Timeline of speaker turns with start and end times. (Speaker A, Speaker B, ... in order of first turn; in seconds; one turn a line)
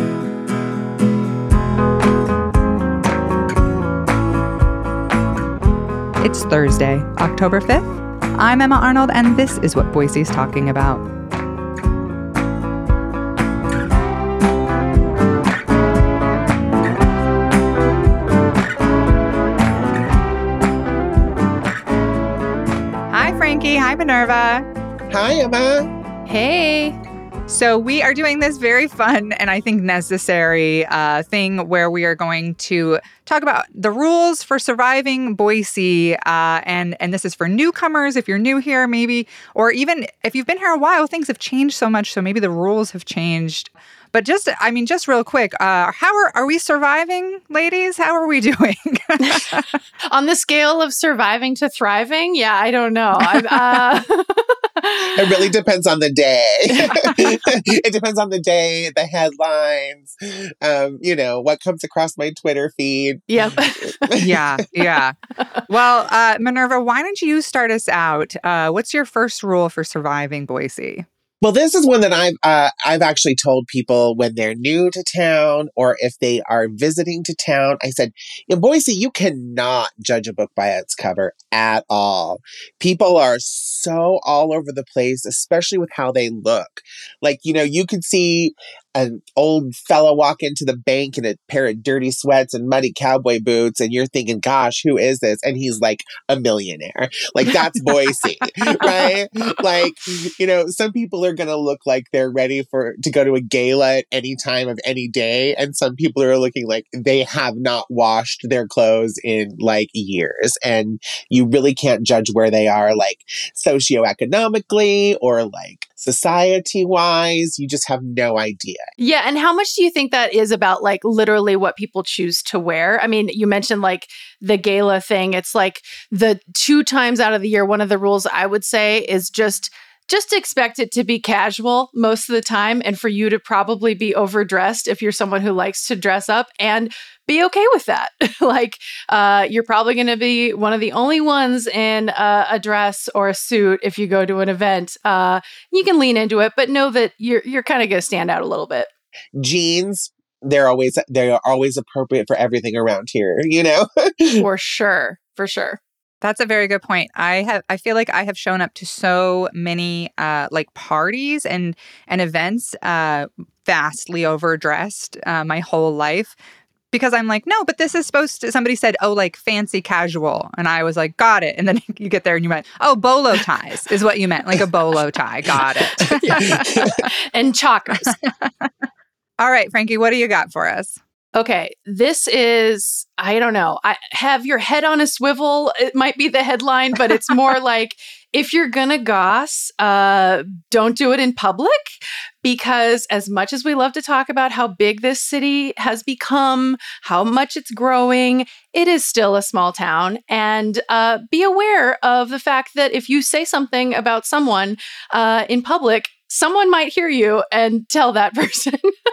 Speaker A: 6.2-11.1
Speaker A: 23.1-24.6
Speaker B: 25.1-25.9
Speaker C: 26.2-26.9
Speaker A: 27.5-49.8
Speaker C: 50.1-55.4
Speaker A: 53.2-53.8
Speaker B: 55.1-63.5
Speaker C: 56.7-57.4
Speaker C: 63.3-64.1
Speaker B: 64.0-64.4
Speaker A: 64.2-65.2
Speaker A: 65.7-71.0
Speaker B: 71.4-118.8
Speaker C: 97.6-98.3
Speaker C: 98.8-99.1
Speaker C: 119.0-148.9
Speaker B: 149.4-154.4
Speaker C: 154.4-155.8
Speaker A: 156.2-166.3
Speaker A: 166.9-176.6
Speaker C: 176.2-178.2
Speaker B: 176.6-176.9
Speaker A: 178.0-178.7
Speaker A: 179.4-181.0
Speaker C: 181.3-208.9